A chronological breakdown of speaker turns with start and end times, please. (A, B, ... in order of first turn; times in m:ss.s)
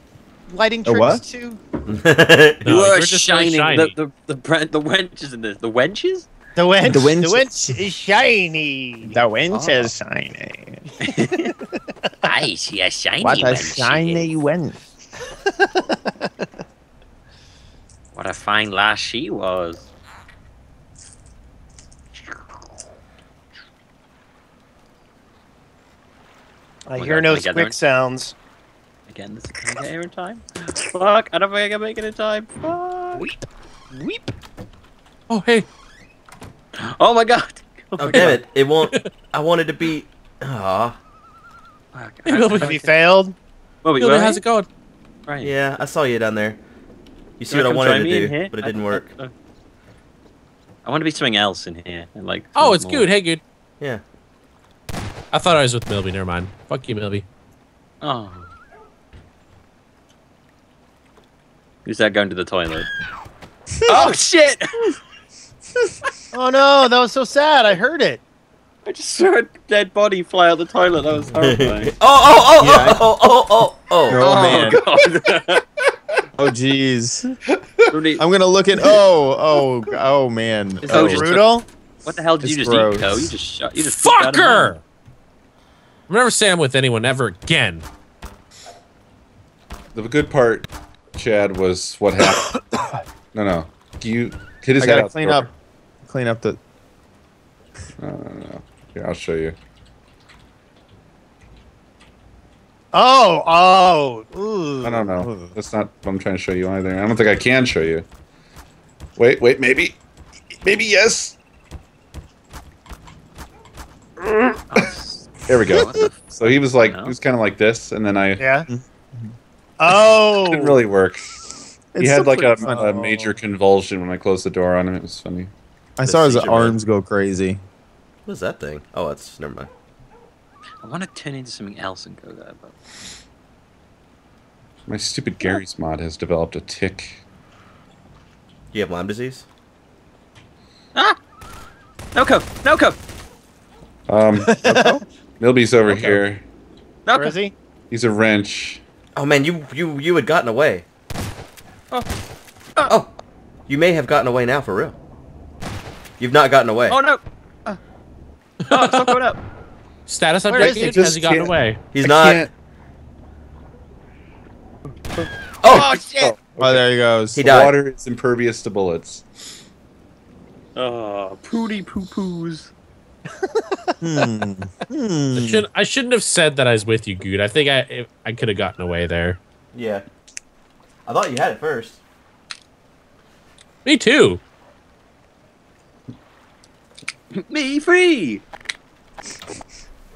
0:00.5-0:01.6 A
0:00.8-0:01.2 B
0:01.9-0:02.6 C
0:02.6-0:03.9 D
0:02.6-0:06.3 E
0:06.6-0:09.1 A
0:06.8-0:08.1 B
0:09.0-0:10.8 B
0:09.5-0:09.9 E
0:11.0-0:11.5 E
0:12.2-0:14.3 E
0:13.2-0:14.8 B
0:18.1-0:19.9 E
0:26.9-0:28.3 A
0:27.0-0:27.8 E
0:29.1-0:33.3 E
0:33.9-0:34.2 A
0:35.3-0:35.6 D
0:37.0-0:38.4 E
0:38.0-0:41.0 C
0:38.8-0:39.1 D
0:41.9-0:42.9 E
0:42.2-0:42.8 D
0:42.6-0:43.3 A
0:43.8-0:44.4 E
0:44.0-0:44.7 D
0:45.3-0:45.6 E
0:45.4-0:46.6 C
0:47.4-0:49.1 C
0:47.5-0:49.3 E
0:50.8-0:53.1 E
0:52.6-0:53.4 D
0:55.3-0:57.2 D
0:58.0-0:58.5 E
1:01.8-1:02.9 E
1:03.8-1:04.7 E
1:06.3-1:08.2 A
1:08.8-1:11.9 E
1:11.3-1:14.7 C
1:12.6-1:13.0 E
1:14.0-1:14.8 B
1:14.2-1:15.6 E
1:16.4-1:17.4 B
1:17.9-1:18.2 E
1:18.2-1:21.3 B
1:20.8-1:24.8 E
1:20.9-1:21.6 A
1:22.4-1:23.3 B
1:23.8-1:24.8 D
1:26.1-1:27.9 D
1:29.9-1:32.4 F
1:33.3-1:35.5 F
1:34.8-1:35.5 B
1:36.0-1:36.6 B
1:38.0-1:39.6 F
1:42.9-1:44.9 A
1:44.8-1:48.0 F
1:45.1-1:45.5 B
1:49.2-1:50.0 F
1:50.6-1:51.4 F
1:54.7-1:57.1 E
1:55.5-1:58.4 F
1:58.7-1:59.3 B
1:59.8-2:00.8 A
1:59.9-2:01.3 F
2:01.9-2:03.4 B
2:02.0-2:05.5 F
2:06.0-2:07.6 B
2:06.0-2:06.8 C
2:08.2-2:09.7 C
2:10.8-2:12.7 E
2:14.9-2:17.2 F
2:18.7-2:19.4 C
2:22.1-2:23.0 E
2:24.1-2:24.8 F
2:24.6-2:25.0 B
2:25.4-2:26.4 F
2:27.0-2:27.4 E
2:27.2-2:27.5 A
2:27.9-2:28.8 F
2:29.1-2:30.8 C
2:32.8-2:33.1 C
2:33.7-2:35.0 C
2:36.2-2:37.0 C
2:36.9-2:37.7 E
2:38.7-2:39.4 E
2:38.7-2:39.1 D
2:40.1-2:41.8 D
2:40.5-2:41.0 A
2:40.6-2:42.5 F
2:41.9-2:42.5 C
2:45.6-2:45.9 C
2:45.7-2:46.8 F
2:46.0-2:46.3 A
2:46.6-2:47.5 B
2:47.3-2:47.7 C
2:47.4-2:49.2 F
2:50.8-2:52.7 E
2:54.0-2:55.7 B
2:55.3-2:59.4 D
2:59.7-3:00.0 C
3:01.0-3:02.0 C
3:03.8-3:04.4 D
3:07.4-3:08.4 E